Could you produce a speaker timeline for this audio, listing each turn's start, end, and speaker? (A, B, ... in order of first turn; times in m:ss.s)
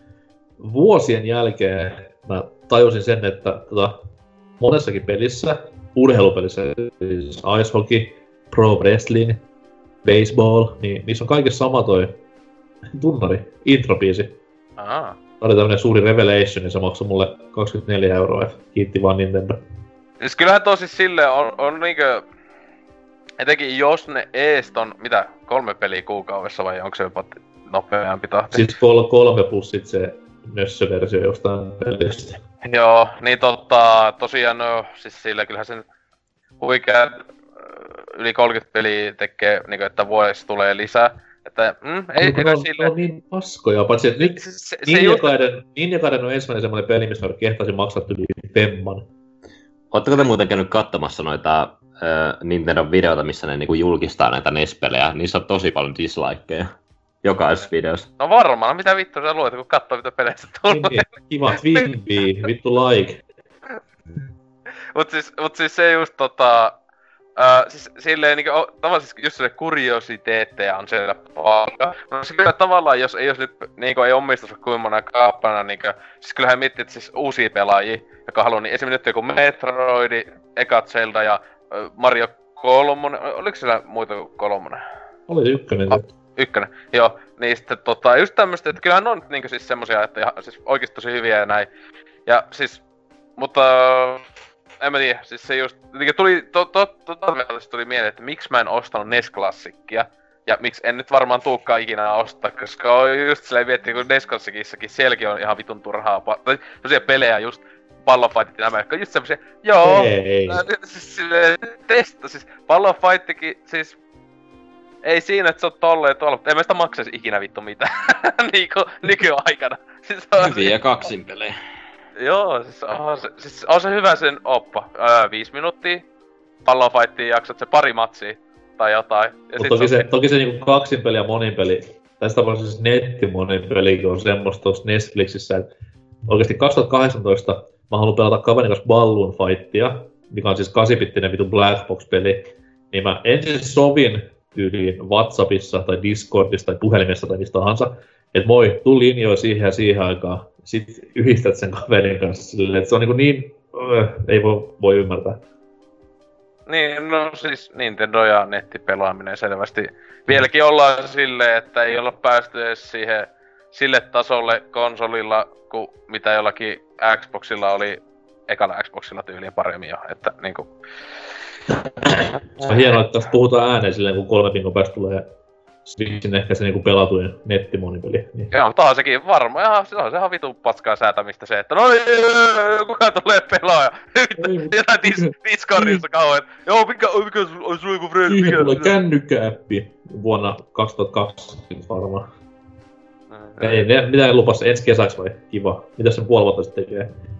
0:00.6-0:04.0 A
0:04.6-0:09.4 A
0:10.0-0:12.2 A
0:12.9-0:14.4 A
0:14.8-0:15.2 B
0:15.4-0:19.6 A
0:20.2-0:22.2 B
0:23.4-0:28.6 B
0:28.5-0:32.4 A
0:32.6-0:35.8 B
0:36.6-0:42.9 B
0:42.2-0:49.1 A
0:44.2-0:45.3 B
0:49.9-0:56.7 C
0:57.2-0:58.1 C
0:58.2-1:01.1 B
1:00.7-1:03.2 A
1:04.9-1:06.7 B
1:07.4-1:24.8 B
1:25.3-1:26.0 A
1:25.9-1:31.7 B
1:32.2-1:32.8 B
1:33.4-1:34.2 B
1:34.8-1:54.0 B
1:49.8-1:50.6 A
1:55.0-2:00.7 B
2:00.4-2:01.5 C
2:02.2-2:06.0 B
2:06.6-2:10.0 B
2:09.6-2:15.7 A
2:16.3-2:35.4 A
2:36.7-2:50.7 B
2:52.0-2:55.3 A
2:55.8-2:58.5 A
2:58.5-3:08.9 B
3:04.4-3:06.0 A
3:08.3-3:12.3 A
3:13.3-3:13.6 B
3:13.6-3:17.1 A